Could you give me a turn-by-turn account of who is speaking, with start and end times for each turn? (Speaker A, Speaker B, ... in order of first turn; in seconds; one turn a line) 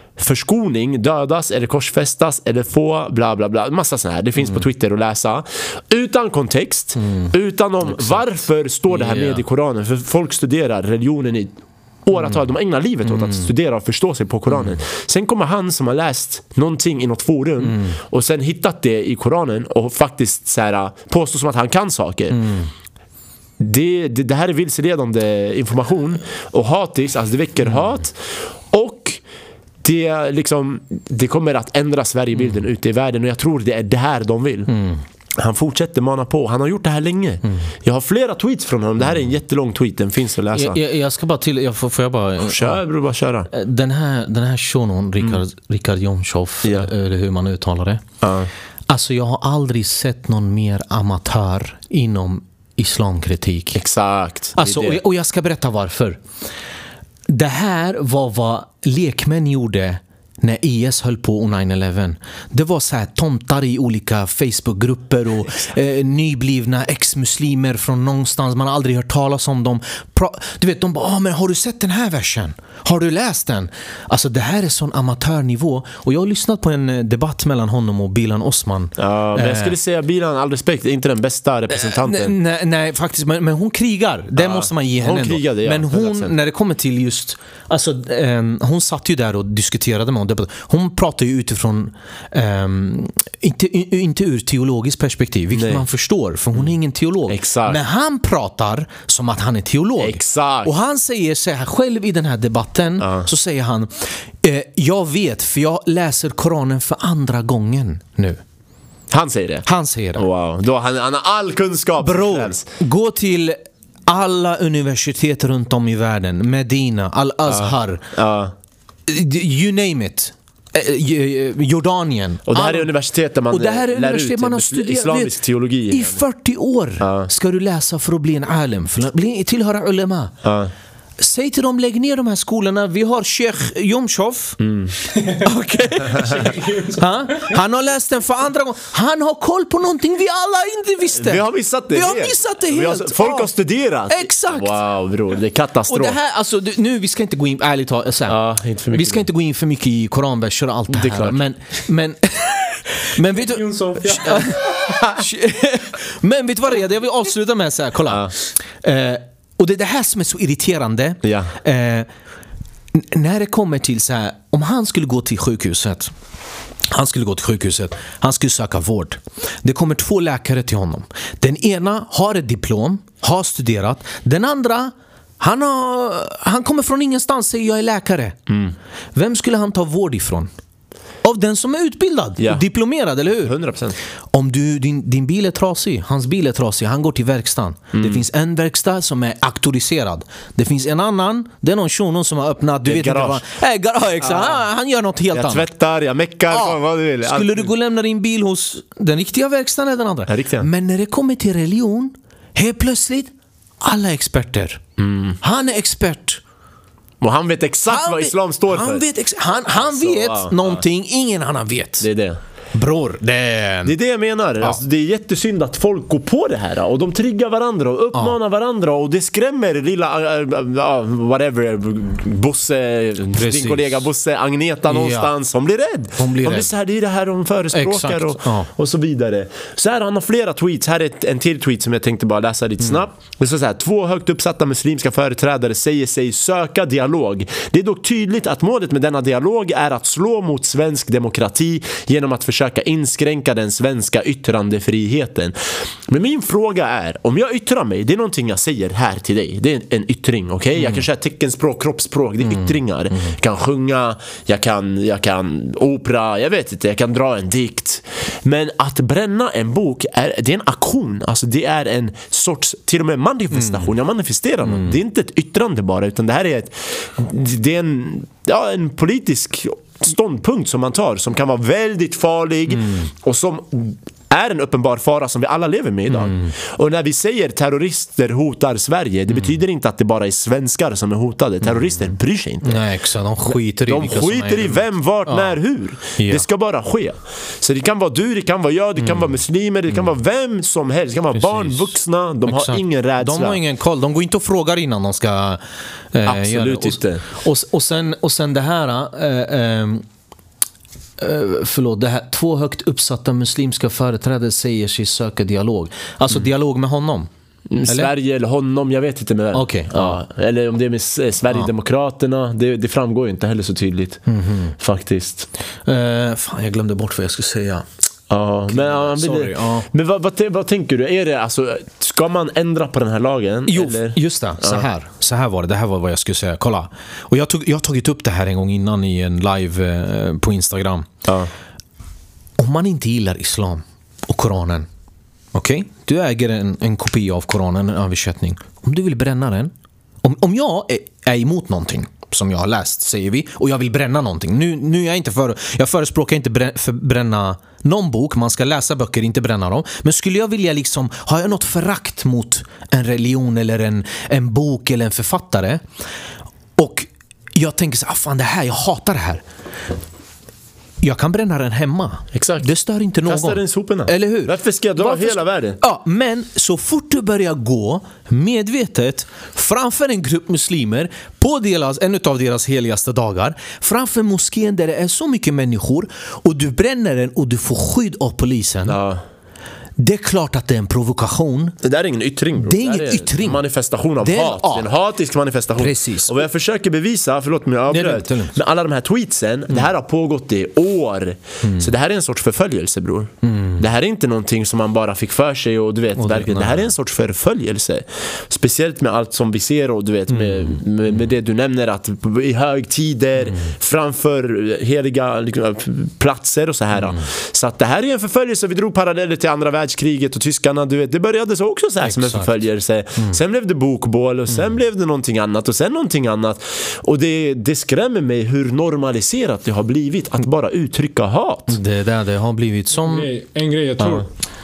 Speaker A: 0.2-22.4
Speaker B: 7.0-9.4
Speaker B: 13.0-13.5
Speaker B: 17.6-18.0
Speaker B: 22.3-22.7
Speaker A: 23.6-29.2
Speaker A: 29.8-34.7
Speaker B: 34.7-35.0
Speaker A: 35.4-40.8
Speaker B: 40.5-42.8
Speaker A: 42.4-43.5
Speaker B: 43.5-48.0
Speaker A: 46.6-46.9
Speaker A: 48.2-48.5
Speaker B: 48.9-53.8
Speaker A: 53.7-55.0
Speaker B: 54.6-56.2
Speaker B: 57.3-79.8
Speaker A: 79.0-82.4
Speaker B: 81.7-108.4
Speaker A: 84.4-86.3
Speaker A: 95.5-95.8
Speaker A: 97.3-97.8
Speaker A: 100.0-100.7
Speaker A: 103.0-103.3
Speaker A: 109.1-112.7
Speaker B: 109.7-110.2
Speaker B: 112.0-118.1
Speaker A: 117.5-118.5
Speaker B: 119.1-122.9
Speaker A: 122.5-126.2
Speaker B: 123.5-130.4
Speaker A: 127.0-127.3
Speaker A: 130.4-130.7
Speaker B: 131.2-134.6
Speaker A: 134.6-134.9
Speaker B: 135.4-143.5
Speaker A: 136.1-136.5
Speaker C: 136.4-137.0
Speaker A: 141.2-146.2
Speaker B: 144.1-144.8
Speaker B: 145.9-148.4
Speaker A: 148.3-149.2
Speaker B: 148.9-162.1
Speaker A: 150.9-151.4
Speaker C: 153.4-154.6
Speaker A: 158.1-158.3
Speaker A: 161.2-161.5
Speaker B: 162.9-166.1
Speaker B: 166.9-178.4
Speaker A: 178.5-178.7
Speaker B: 179.1-180.5
Speaker B: 181.2-183.6
Speaker A: 183.4-184.0
Speaker B: 184.3-195.7
Speaker A: 187.9-188.2
Speaker A: 192.8-193.4
Speaker A: 194.2-194.6
Speaker A: 195.3-197.7
Speaker B: 196.5-204.8
Speaker A: 200.3-200.7
Speaker A: 205.0-205.4
Speaker B: 205.4-206.4
Speaker A: 207.2-209.1
Speaker B: 207.9-212.1
Speaker A: 209.8-210.8
Speaker A: 212.0-212.4
Speaker B: 212.7-213.9
Speaker A: 213.8-245.6
Speaker B: 223.3-224.1
Speaker B: 224.9-225.3
Speaker B: 226.2-226.7
Speaker B: 227.7-228.7
Speaker A: 246.1-282.8
Speaker B: 250.8-251.1
Speaker B: 252.4-253.3
Speaker B: 263.5-263.9
Speaker B: 264.6-264.9
Speaker B: 272.7-273.1
Speaker B: 276.1-276.5
Speaker B: 279.3-279.6
Speaker B: 282.6-286.4
Speaker A: 283.5-293.6
Speaker B: 289.0-289.4
Speaker B: 291.3-295.6
Speaker B: 296.1-300.1
Speaker A: 296.2-297.3
Speaker B: 301.2-307.3
Speaker A: 307.7-314.2
Speaker B: 307.9-308.1
Speaker B: 309.5-310.2
Speaker B: 314.3-314.8
Speaker A: 314.8-315.5
Speaker B: 315.9-317.9
Speaker A: 318.3-324.9
Speaker B: 318.7-319.9
Speaker B: 323.7-331.1
Speaker A: 331.2-331.5
Speaker B: 332.6-334.9
Speaker B: 335.5-355.8
Speaker B: 356.8-359.4
Speaker B: 361.0-379.0
Speaker A: 362.3-362.7
Speaker A: 363.2-365.8
Speaker A: 378.9-379.2
Speaker B: 380.0-381.8
Speaker A: 381.8-421.8
Speaker B: 382.6-383.6
Speaker B: 384.2-384.9
Speaker B: 385.8-386.4
Speaker B: 387.9-388.6
Speaker B: 391.6-391.9
Speaker B: 393.4-393.8
Speaker B: 396.1-396.9
Speaker B: 400.3-400.8
Speaker B: 406.9-407.2
Speaker B: 412.0-412.5
Speaker B: 421.7-423.3
Speaker C: 422.9-424.3
Speaker A: 424.0-424.2